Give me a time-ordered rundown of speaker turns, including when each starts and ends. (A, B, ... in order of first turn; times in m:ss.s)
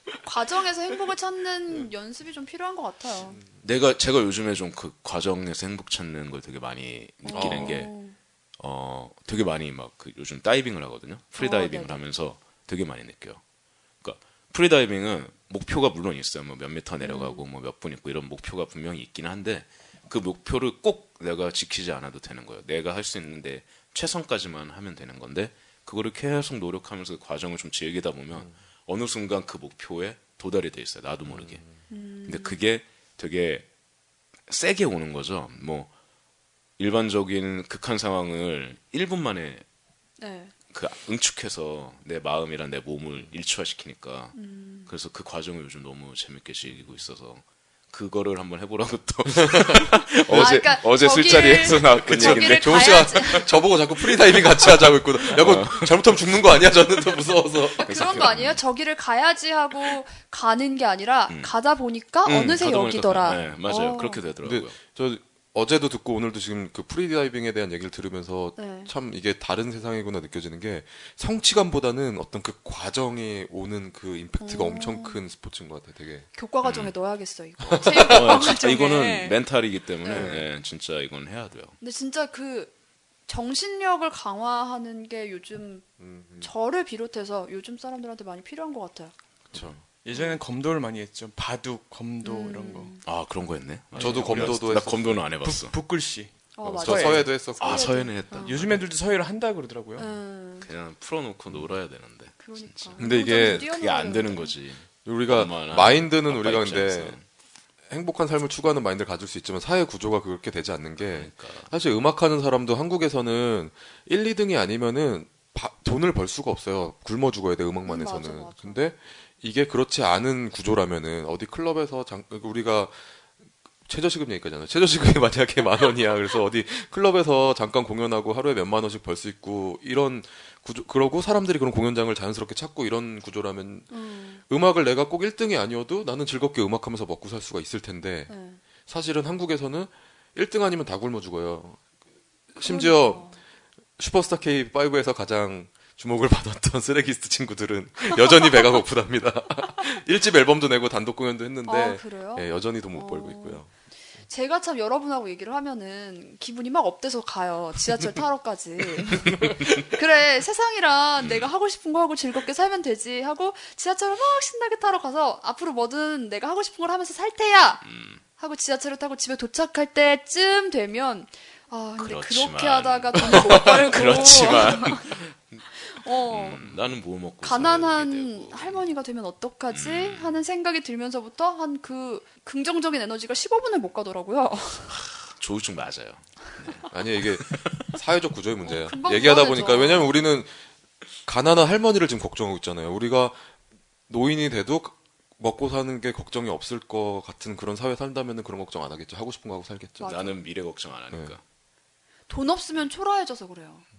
0:00.2-0:03.4 A
0:03.6-0:07.9 B
0:07.2-0:08.2 A
0:07.3-0:07.9 C
0:08.6-0:13.4 B
0:11.4-0:12.0 A
0:14.0-0:31.6 B
0:17.0-0:17.4 A
0:31.3-0:31.8 C
0:31.9-0:32.6 A
0:32.2-0:33.7 B
0:34.5-0:35.9 B
0:36.8-0:39.6 B
0:40.2-0:40.5 A
0:40.7-0:53.5 B
0:44.3-0:44.9 A
0:49.4-0:50.8 C
0:50.3-0:53.5 A
0:51.6-0:58.0 C
0:54.0-0:57.2 B
0:57.7-1:04.2 A
0:57.8-0:58.6 B
1:01.3-1:01.5 B
1:02.2-1:04.8 B
1:04.4-1:16.3 C
1:08.6-1:08.9 A
1:14.4-1:15.2 A
1:16.3-1:19.4 A
1:16.6-1:16.9 B
1:17.7-1:18.2 C
1:17.9-1:21.8 B
1:20.0-1:20.4 A
1:20.1-1:20.4 C
1:21.8-1:22.7 A
1:23.3-1:25.8 A
1:26.0-1:26.5 C
1:26.4-1:29.1 A
1:29.5-1:29.8 C
1:30.0-1:32.9 D
1:30.1-1:30.4 A
1:32.2-1:33.0 A
1:33.0-1:35.8 B
1:34.0-1:35.3 C
1:34.0-1:34.5 D
1:35.4-1:37.2 D
1:36.6-1:38.5 A
1:36.7-1:38.2 C
1:37.5-1:38.8 B
1:38.4-1:40.1 D
1:40.0-1:40.7 A
1:40.6-1:47.2 B
1:42.4-1:44.5 A
1:43.0-1:43.7 C
1:45.0-1:47.2 C
1:47.9-2:03.1 C
1:51.0-1:51.7 B
1:57.8-1:58.8 A
2:03.8-2:18.3 C
2:13.9-2:14.4 A
2:18.3-2:18.6 A
2:18.8-2:21.8 C
2:22.5-2:23.3 C
2:22.6-2:23.4 A
2:24.0-2:33.7 C
2:31.6-2:33.6 A
2:34.3-2:47.8 A
2:41.2-2:41.5 B
2:47.8-2:48.2 B
2:48.4-2:55.2 A
2:52.0-2:55.6 B
2:55.8-2:56.6 A
2:56.3-2:58.8 B
2:57.4-3:05.0 A
2:59.7-3:00.4 B
3:04.9-3:07.8 B
3:06.9-3:10.5 C
3:08.6-3:10.3 A
3:11.2-3:13.5 C
3:14.1-3:20.2 C
3:20.0-3:20.3 A
3:20.0-3:21.4 B
3:22.3-3:23.8 A